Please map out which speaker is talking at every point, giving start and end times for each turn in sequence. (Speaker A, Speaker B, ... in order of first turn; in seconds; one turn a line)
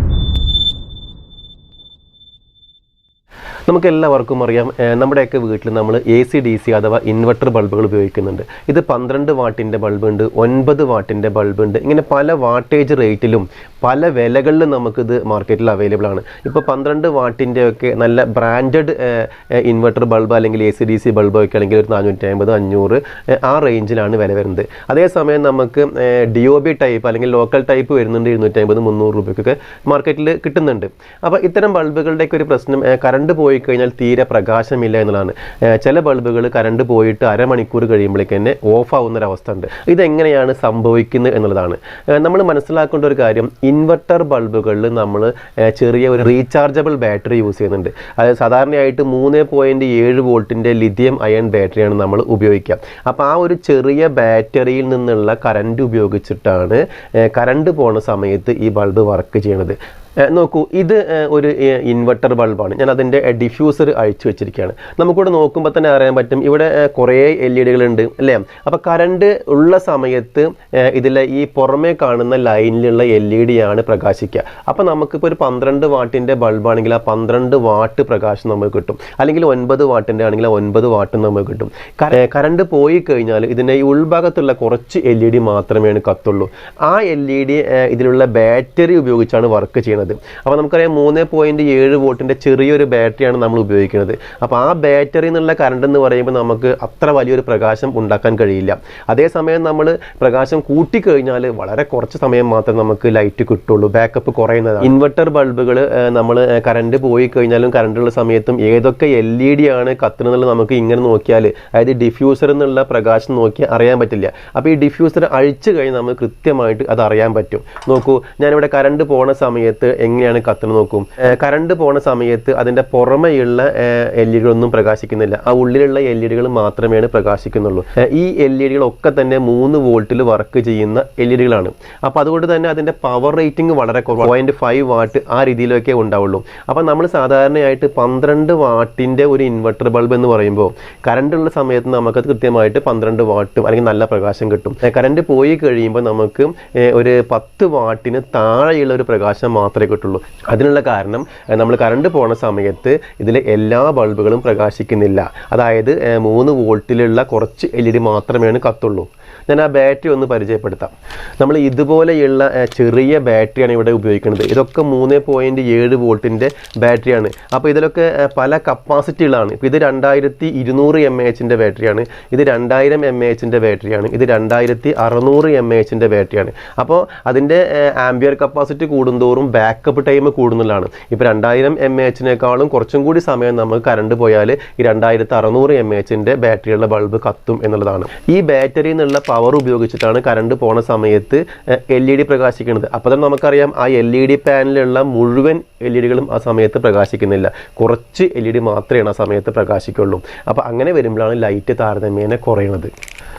Speaker A: 3.7-202.9